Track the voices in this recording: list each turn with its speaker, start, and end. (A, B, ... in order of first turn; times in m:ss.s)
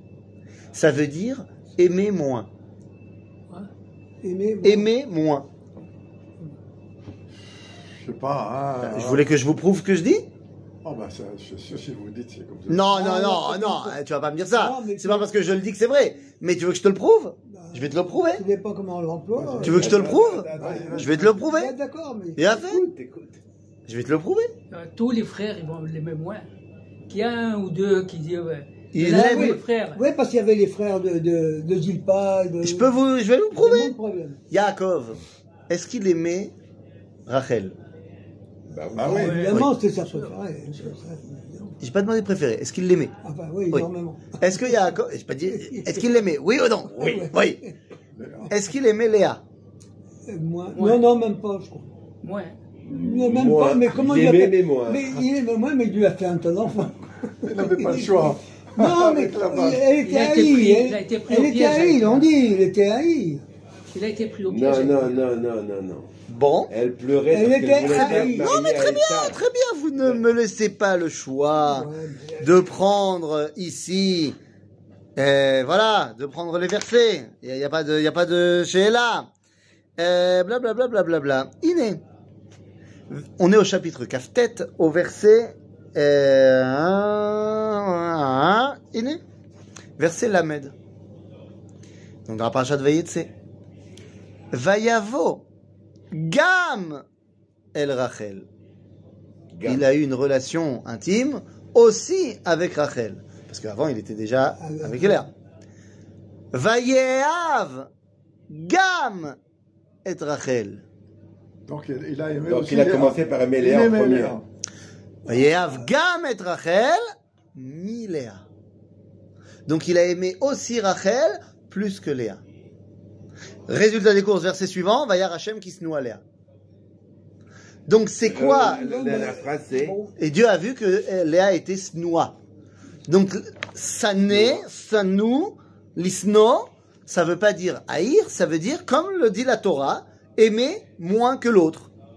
0:00.7-0:02.5 A
0:04.2-0:04.9 B
0:04.6-0:05.5 A
0:07.9-0:09.3 C
0:08.8-0:10.3 A
0:10.8-0:12.9 C
0:12.7-0:18.4 A
0:12.9-0:15.3 B
0:17.5-0:19.9 B
0:19.4-0:19.9 C
0:19.6-0:21.7 A
0:19.7-0:21.2 D
0:20.6-0:22.6 B
0:20.6-0:21.3 C
0:22.4-0:22.8 A
0:22.4-0:23.4 D
0:23.9-0:24.5 A
0:24.7-0:26.5 E
0:27.1-0:30.0 E
0:28.9-0:29.6 A
0:29.0-0:32.9 B
0:32.6-0:34.0 A
0:33.6-0:34.4 B
0:34.5-0:36.5 A
0:37.3-0:37.8 A
0:38.7-0:39.4 D
0:39.0-0:39.4 C
0:39.0-0:41.8 B
0:39.2-0:39.7 E
0:41.8-0:43.1 A
0:43.2-0:45.0 B
0:44.4-0:47.6 A
0:45.5-0:46.1 B
0:46.9-0:47.7 B
0:48.1-0:48.5 C
0:48.5-0:49.4 A
0:50.3-0:51.9 B
0:50.8-0:51.1 E
0:52.2-0:52.6 E
0:52.9-0:55.2 D
0:52.9-1:03.4 B
0:57.4-0:59.9 C
1:00.0-1:02.3 E
1:03.9-1:05.2 E
1:04.5-1:06.1 D
1:06.3-1:06.7 A
1:06.7-1:09.5 D
1:07.3-1:08.6 B
1:07.8-1:11.9 A
1:11.6-1:12.7 B
1:12.4-1:14.4 A
1:15.2-1:19.3 A
1:20.0-1:22.0 A
1:23.1-1:29.2 A
1:30.0-1:30.7 A
1:32.3-1:33.3 A
1:34.5-1:35.4 A
1:36.1-1:37.0 A
1:37.8-1:38.5 A
1:39.5-1:39.8 D
1:39.6-1:45.3 A
1:44.6-1:45.3 B
1:46.5-1:47.9 A
1:48.5-1:49.4 A
1:50.0-1:50.8 A
1:51.7-1:54.4 C
1:52.5-1:54.4 D
1:55.3-1:57.0 A
1:55.3-1:55.8 B
1:57.6-1:58.4 A
1:59.7-2:02.4 A
2:03.7-2:06.2 A
2:07.9-2:08.9 A
2:08.2-2:10.0 D
2:08.4-2:10.1 B
2:10.2-2:12.4 A
2:13.1-2:21.9 A
2:14.3-2:14.6 D